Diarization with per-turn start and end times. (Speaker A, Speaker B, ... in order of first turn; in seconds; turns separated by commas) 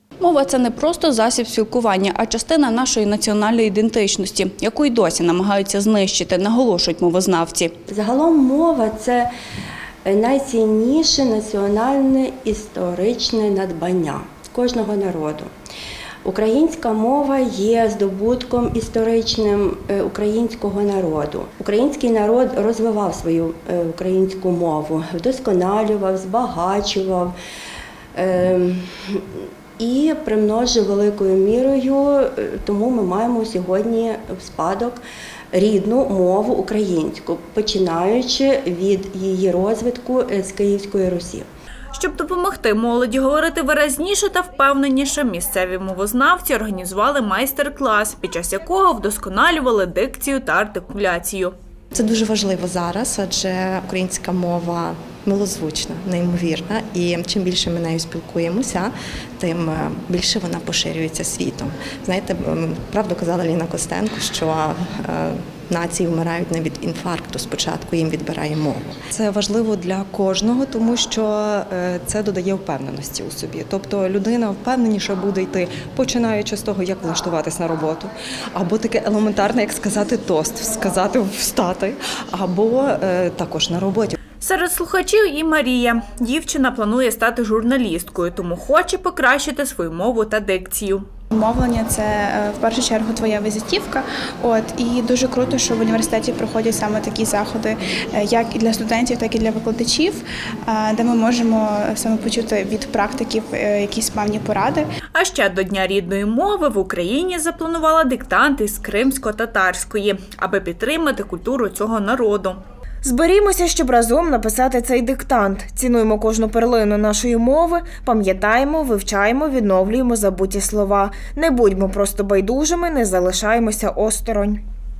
Speaker A: 0.2-7.7, Speaker B: 7.9-9.3, Speaker B: 10.0-15.5, Speaker B: 16.2-27.3, Speaker B: 28.1-35.0, Speaker B: 35.5-41.5, Speaker C: 41.9-51.5, Speaker D: 51.9-69.0, Speaker E: 69.1-84.2, Speaker C: 84.4-91.0, Speaker F: 91.3-104.9, Speaker C: 105.1-112.6, Speaker G: 113.0-124.6